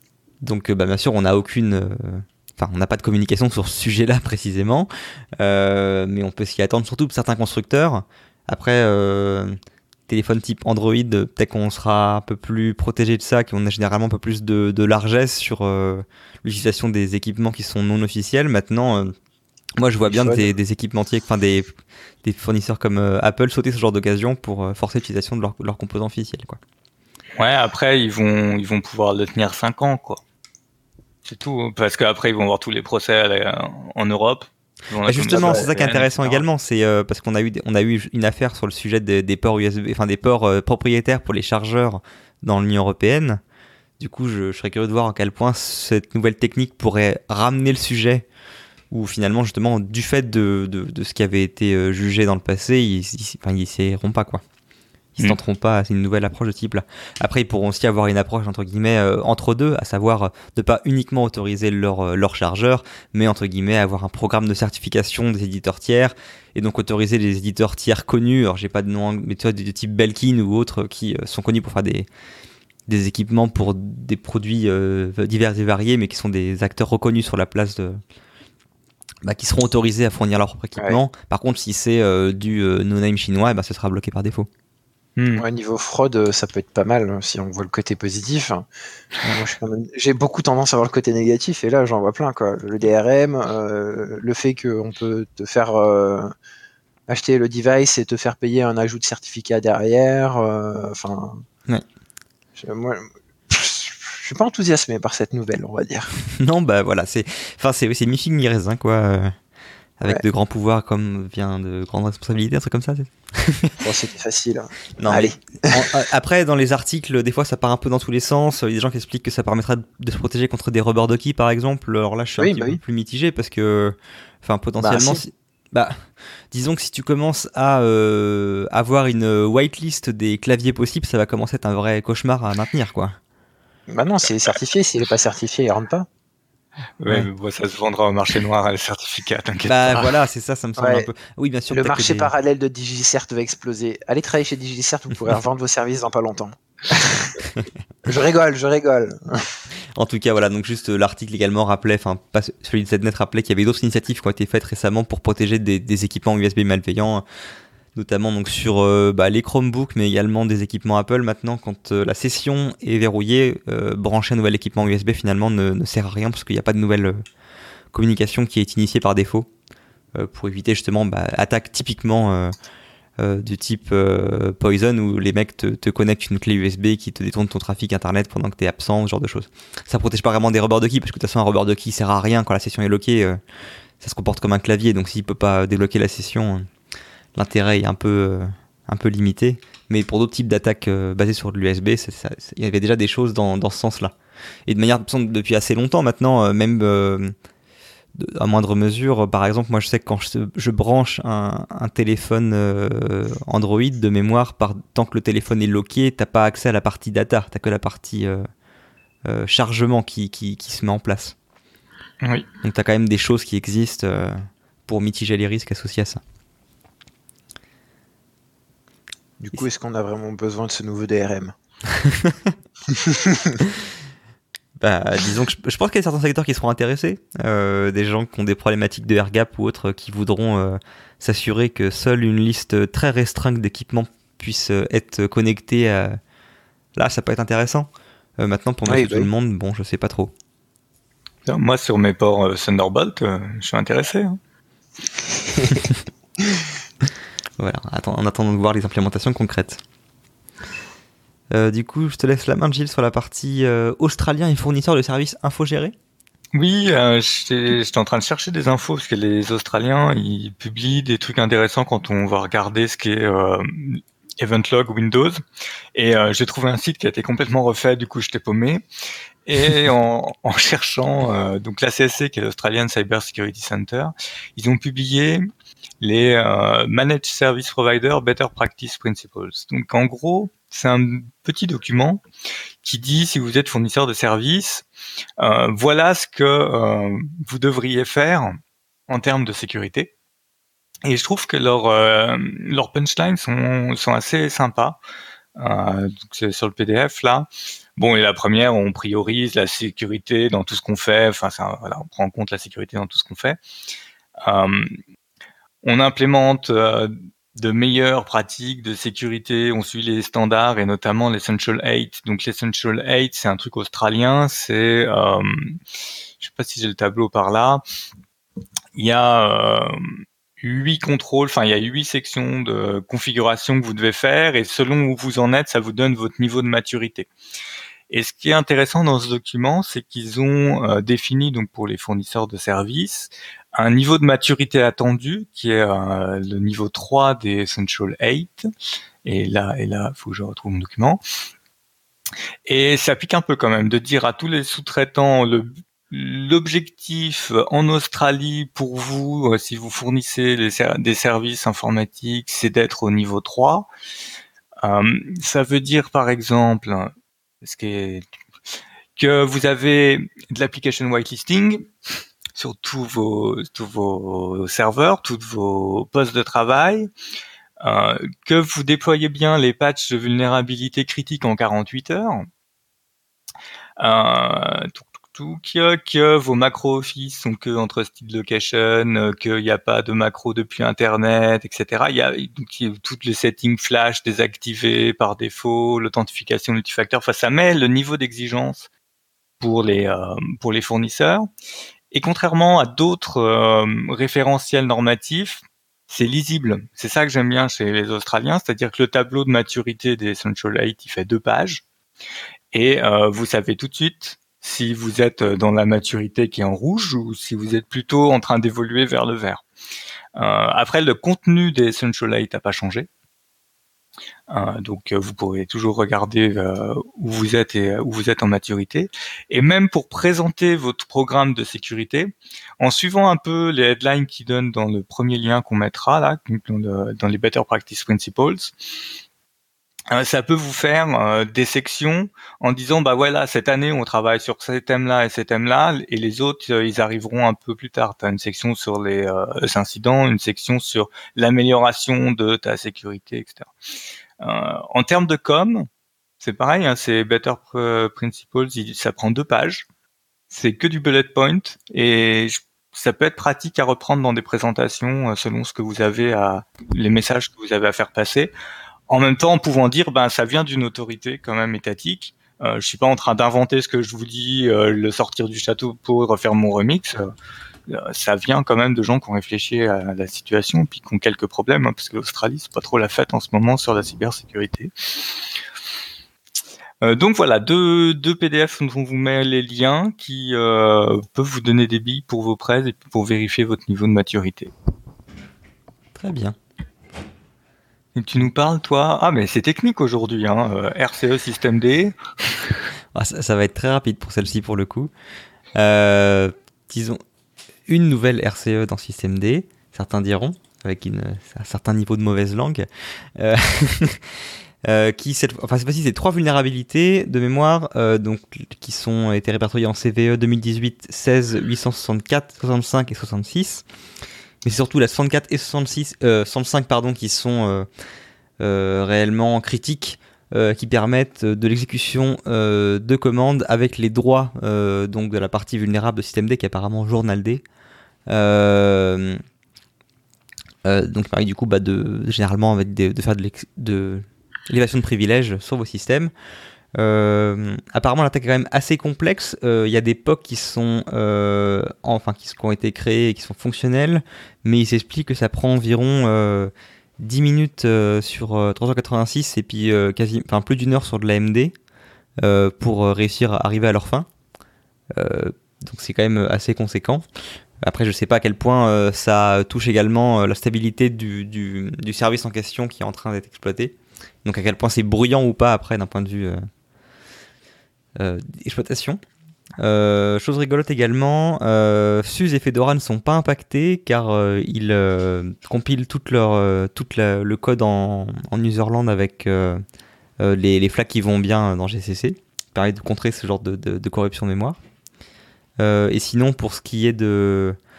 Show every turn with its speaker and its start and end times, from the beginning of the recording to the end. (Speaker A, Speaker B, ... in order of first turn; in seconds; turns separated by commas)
Speaker A: 0.4-9.6, Speaker A: 10.1-19.1, Speaker A: 19.8-26.6, Speaker B: 20.1-20.5, Speaker C: 27.4-30.2, Speaker C: 31.2-36.4, Speaker A: 35.0-43.4, Speaker B: 35.3-35.7, Speaker A: 44.0-48.3, Speaker A: 48.9-54.4, Speaker A: 55.1-72.1, Speaker A: 72.9-78.0, Speaker A: 79.2-84.5, Speaker C: 85.2-85.4, Speaker B: 85.4-88.7, Speaker B: 89.2-96.3, Speaker B: 97.1-101.4, Speaker B: 102.6-106.1, Speaker A: 106.4-109.3, Speaker A: 110.0-113.8, Speaker B: 113.8-115.9, Speaker A: 115.0-133.2, Speaker B: 122.4-122.8, Speaker B: 124.8-125.2, Speaker B: 133.9-136.1, Speaker C: 137.0-140.1, Speaker A: 139.7-142.3, Speaker B: 140.8-141.1, Speaker B: 141.7-147.4, Speaker B: 148.0-149.4, Speaker A: 149.9-157.2, Speaker A: 157.9-167.2, Speaker A: 167.9-169.5, Speaker A: 170.1-172.5, Speaker A: 173.2-183.4, Speaker A: 184.0-186.7, Speaker A: 187.3-194.1, Speaker A: 194.7-197.3, Speaker A: 198.2-208.4, Speaker A: 209.2-211.3, Speaker C: 212.2-212.5, Speaker A: 212.6-216.2, Speaker B: 219.4-221.5, Speaker A: 222.0-222.5, Speaker B: 222.9-223.6, Speaker A: 224.8-236.2, Speaker A: 236.9-240.3, Speaker B: 238.9-239.3, Speaker C: 241.4-244.4, Speaker A: 247.6-249.8, Speaker A: 251.5-255.9, Speaker C: 256.5-265.4, Speaker C: 265.9-268.8, Speaker C: 269.4-275.5, Speaker C: 276.0-282.2, Speaker C: 282.8-284.9, Speaker C: 285.4-288.6, Speaker C: 289.1-290.1, Speaker C: 291.0-295.0, Speaker C: 295.6-303.6, Speaker C: 304.4-305.0, Speaker C: 305.8-315.8, Speaker C: 316.4-317.8, Speaker C: 318.9-327.3, Speaker C: 328.1-338.7, Speaker C: 339.2-341.2, Speaker C: 342.7-353.9, Speaker C: 354.8-358.2, Speaker C: 359.2-361.9, Speaker C: 362.5-367.1, Speaker C: 367.8-372.5, Speaker C: 374.0-388.9, Speaker C: 389.6-391.5, Speaker C: 392.1-401.8, Speaker C: 402.7-409.6, Speaker C: 410.4-413.1, Speaker C: 414.5-428.7, Speaker C: 430.1-443.7, Speaker C: 444.4-445.9, Speaker C: 446.4-449.9, Speaker C: 450.5-458.5, Speaker C: 459.1-467.2, Speaker C: 467.9-475.4, Speaker C: 477.0-484.7, Speaker A: 486.1-486.6, Speaker C: 488.1-492.1, Speaker A: 493.1-495.1, Speaker A: 495.7-497.2, Speaker A: 497.9-502.9, Speaker A: 503.4-504.2, Speaker A: 504.8-513.8, Speaker A: 514.6-517.9, Speaker A: 518.6-527.6, Speaker A: 528.3-529.4, Speaker A: 530.8-536.3, Speaker A: 537.0-551.7, Speaker A: 552.4-554.3, Speaker A: 555.1-557.2, Speaker A: 557.8-566.6, Speaker A: 568.2-569.2, Speaker A: 569.8-579.8, Speaker A: 580.4-584.8, Speaker A: 585.8-587.8